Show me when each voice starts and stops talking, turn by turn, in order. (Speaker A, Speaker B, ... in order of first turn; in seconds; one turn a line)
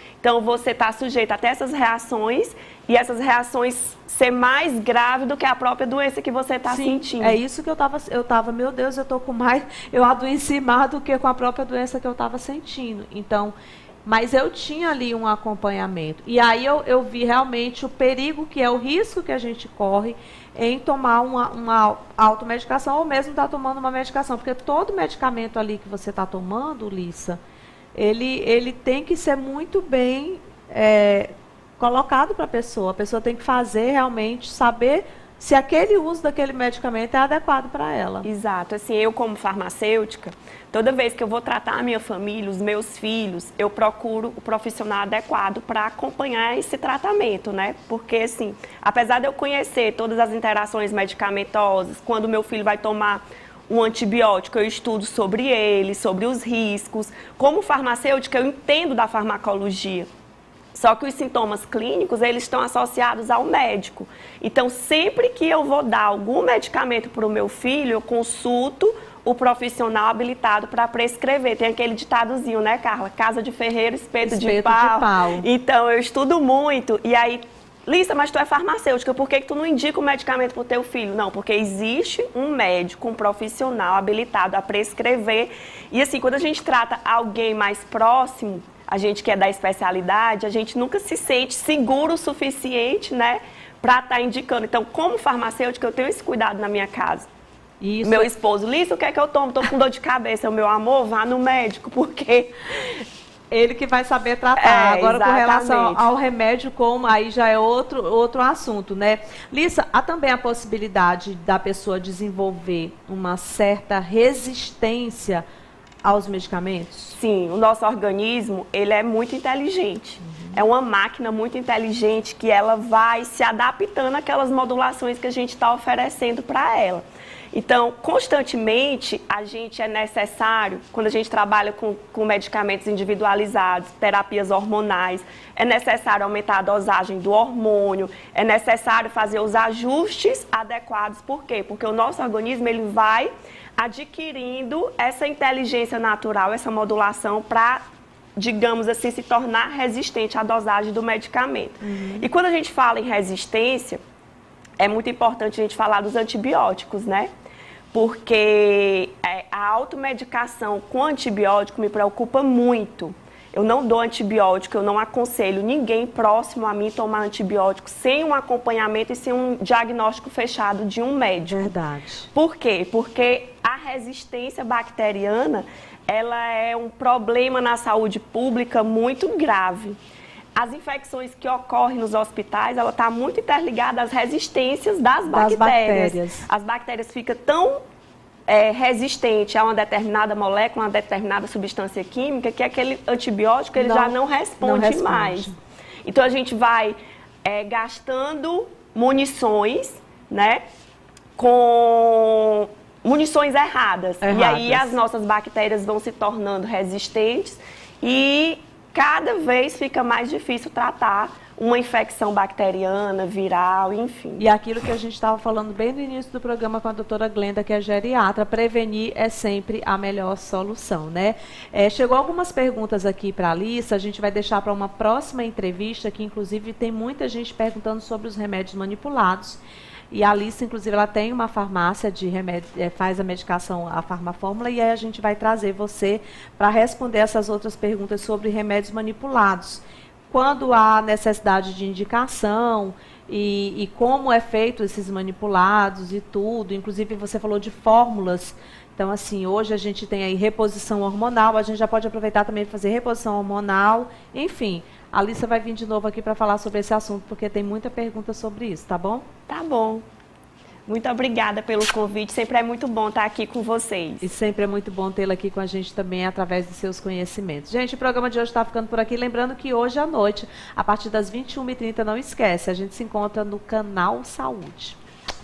Speaker A: 0.2-7.4
Speaker B: 6.7-13.5
Speaker B: 14.1-27.4
Speaker B: 27.9-38.3
Speaker A: 38.2-60.1
Speaker A: 60.7-97.3
Speaker B: 74.2-75.5
Speaker B: 97.8-98.3
Speaker A: 98.0-103.1
Speaker B: 103.5-115.4
Speaker A: 104.6-106.0
Speaker B: 116.0-117.2
Speaker A: 117.2-147.8
Speaker B: 120.2-120.6
Speaker A: 148.4-154.0
Speaker B: 151.8-152.3
Speaker A: 154.8-157.3
Speaker A: 157.9-171.7
Speaker B: 171.5-172.3
Speaker A: 172.3-180.0
Speaker A: 180.6-187.8
Speaker B: 185.3-186.5
Speaker A: 188.5-195.5
Speaker B: 193.8-195.5
Speaker A: 196.1-200.6
Speaker A: 201.4-214.4
Speaker B: 204.2-205.0
Speaker B: 214.4-259.3
Speaker A: 259.5-260.0
Speaker A: 260.9-264.3
Speaker B: 264.2-275.0